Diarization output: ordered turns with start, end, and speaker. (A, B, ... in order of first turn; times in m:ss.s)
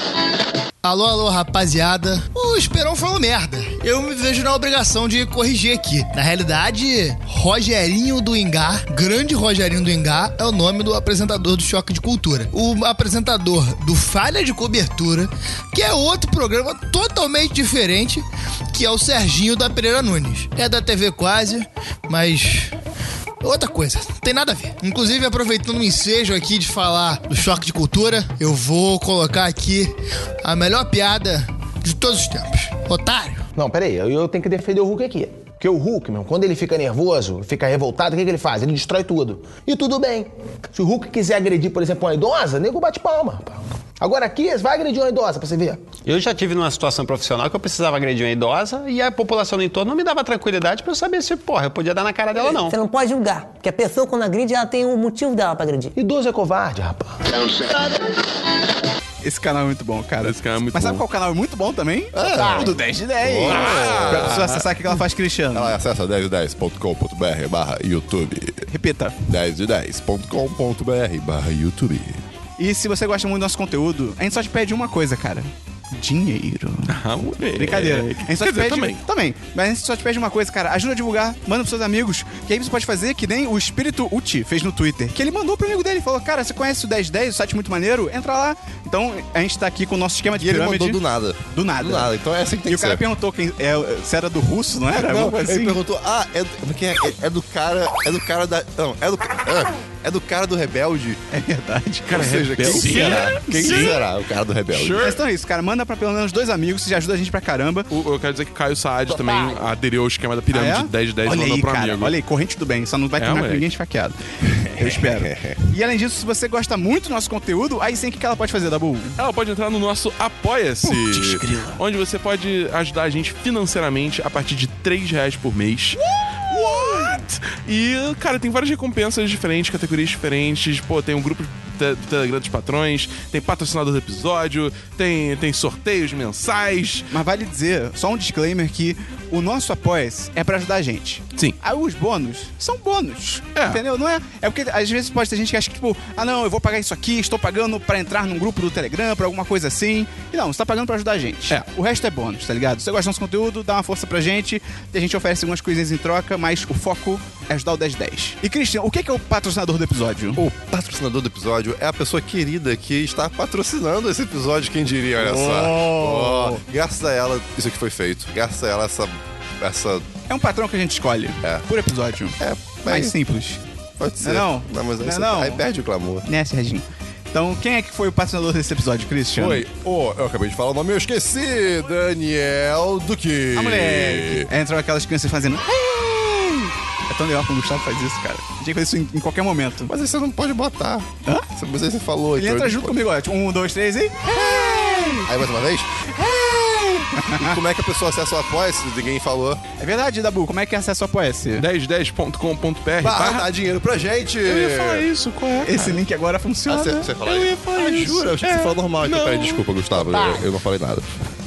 0:00.8-0:22.7 A
0:23.4-0:33.5 A
0:33.6-0:45.8 B
0:46.0-0:52.8 C
0:52.7-0:55.9 D
0:56.0-0:57.9 B
0:59.2-1:05.8 E
1:00.2-1:01.0 F
1:02.1-1:04.5 G
1:02.3-1:02.7 B
1:03.4-1:04.7 F
1:05.5-1:08.7 G
1:08.7-1:09.2 E
1:09.3-1:12.2 G
1:12.6-1:16.9 E
1:16.9-1:19.0 F
1:17.6-1:35.8 E
1:30.4-1:33.0 G
1:34.9-1:41.2 G
1:41.3-1:44.0 E
1:42.1-1:44.0 F
1:42.1-1:45.0 G
1:44.7-1:45.2 F
1:45.0-1:47.9 E
1:47.9-1:52.2 F
1:49.1-1:49.6 B
1:50.5-1:59.2 E
1:53.2-1:53.7 F
1:54.6-1:55.6 G
1:59.2-2:17.1 F
2:00.8-2:01.8 E
2:06.5-2:07.2 E
2:17.1-2:40.4 E
2:23.6-2:23.8 F
2:40.4-2:50.1 G
2:45.2-2:46.6 E
2:50.3-2:53.6 E
2:52.4-2:53.2 G
2:54.0-2:56.3 G
2:54.2-2:55.6 E
2:56.2-2:59.6 E
2:59.4-3:04.5 G
3:03.5-3:09.9 E
3:09.8-3:13.0 G
3:12.4-3:15.2 E
3:14.6-3:19.6 G
3:17.2-3:17.6 E
3:19.8-3:21.6 E
3:21.6-3:23.5 F
3:23.0-3:25.1 G
3:24.5-3:26.0 F
3:25.6-3:27.1 E
3:26.7-3:31.1 G
3:27.2-3:29.7 F